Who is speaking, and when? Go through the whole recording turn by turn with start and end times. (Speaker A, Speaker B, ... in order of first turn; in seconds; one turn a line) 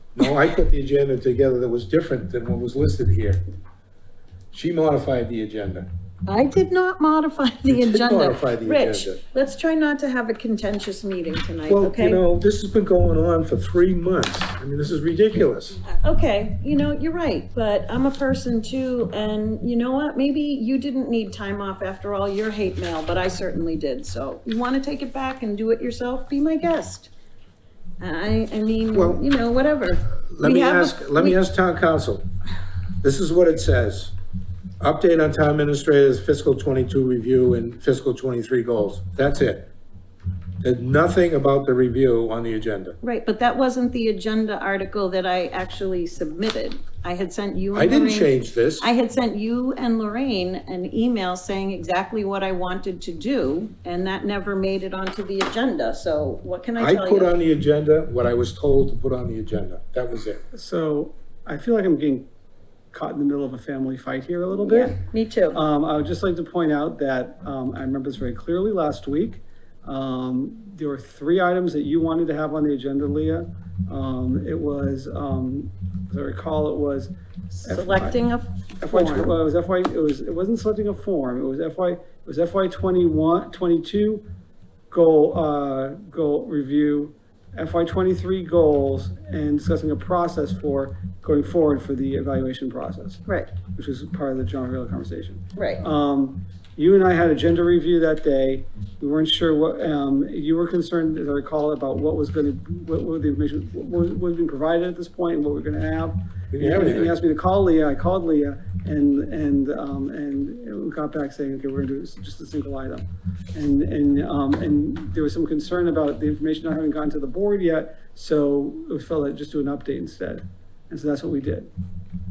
Speaker A: 0.1-3.4
Speaker A: 4.5-5.9
Speaker B: 6.2-12.2
Speaker A: 7.7-9.2
Speaker A: 11.7-15.8
Speaker B: 15.9-27.1
Speaker B: 28.0-31.4
Speaker A: 28.9-29.2
Speaker A: 30.3-32.2
Speaker A: 33.0-34.1
Speaker A: 34.8-39.7
Speaker A: 40.6-43.0
Speaker B: 43.0-57.3
Speaker A: 47.7-48.9
Speaker A: 56.8-60.4
Speaker C: 60.5-62.3
Speaker C: 62.9-65.0
Speaker B: 64.5-65.6
Speaker C: 65.5-77.1
Speaker B: 77.6-79.3
Speaker C: 77.6-78.2
Speaker C: 78.8-84.2
Speaker C: 84.9-121.7
Speaker B: 93.2-93.5
Speaker B: 95.5-95.8
Speaker A: 106.5-107.2